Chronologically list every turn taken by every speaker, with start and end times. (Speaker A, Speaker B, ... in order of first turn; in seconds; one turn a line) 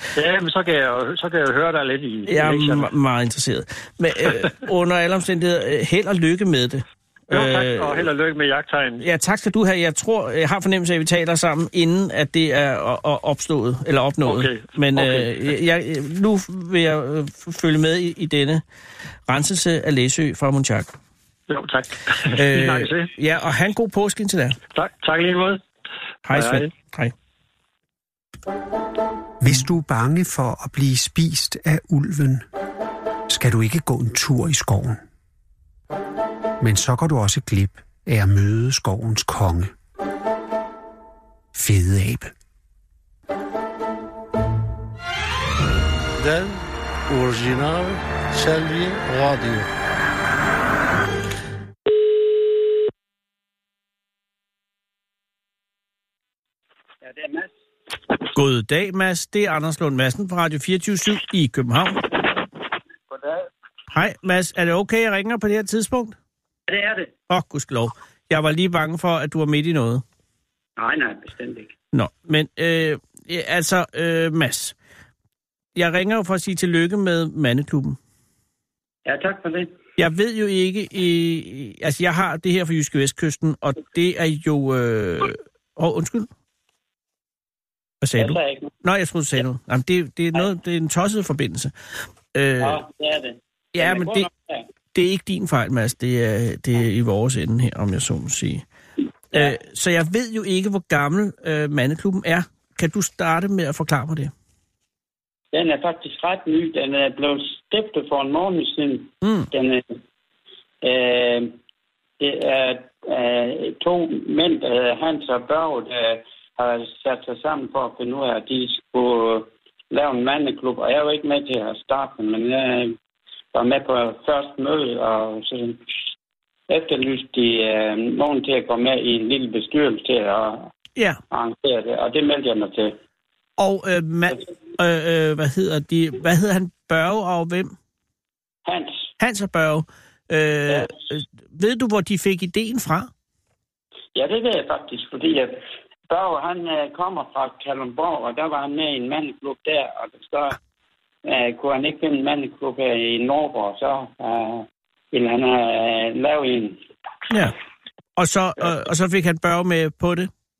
Speaker A: 0.1-2.9
Speaker B: 2.3-8.1
Speaker A: 7.3-9.0
Speaker B: 9.0-18.6
Speaker A: 14.2-15.3
Speaker B: 19.3-20.9
Speaker A: 21.5-23.1
Speaker B: 22.3-24.6
Speaker A: 24.7-25.6
Speaker B: 26.2-27.1
Speaker A: 26.3-26.7
Speaker C: 29.4-32.4
Speaker C: 33.3-35.0
Speaker C: 36.6-39.7
Speaker C: 41.5-42.3
Speaker D: 46.2-49.7
Speaker E: 57.0-57.5
Speaker B: 58.3-62.0
Speaker E: 63.1-63.5
Speaker B: 63.9-66.2
Speaker E: 66.7-67.1
Speaker B: 67.3-70.0
Speaker E: 70.8-71.7
Speaker B: 71.9-74.7
Speaker B: 75.7-78.0
Speaker E: 79.0-79.7
Speaker B: 80.0-86.3
Speaker B: 88.0-91.7
Speaker E: 88.2-88.7
Speaker B: 92.3-92.8
Speaker E: 92.6-94.7
Speaker B: 93.7-94.3
Speaker B: 94.9-98.6
Speaker B: 99.3-104.3
Speaker E: 105.5-109.8
Speaker B: 109.2-109.5
Speaker E: 110.8-111.5
Speaker E: 112.2-123.0
Speaker E: 123.5-125.8
Speaker E: 126.7-130.7
Speaker E: 131.3-132.9
Speaker B: 133.6-137.7
Speaker E: 138.7-139.0
Speaker B: 139.2-143.1
Speaker E: 144.1-145.6
Speaker E: 146.1-150.6
Speaker E: 151.2-156.8
Speaker B: 158.2-160.3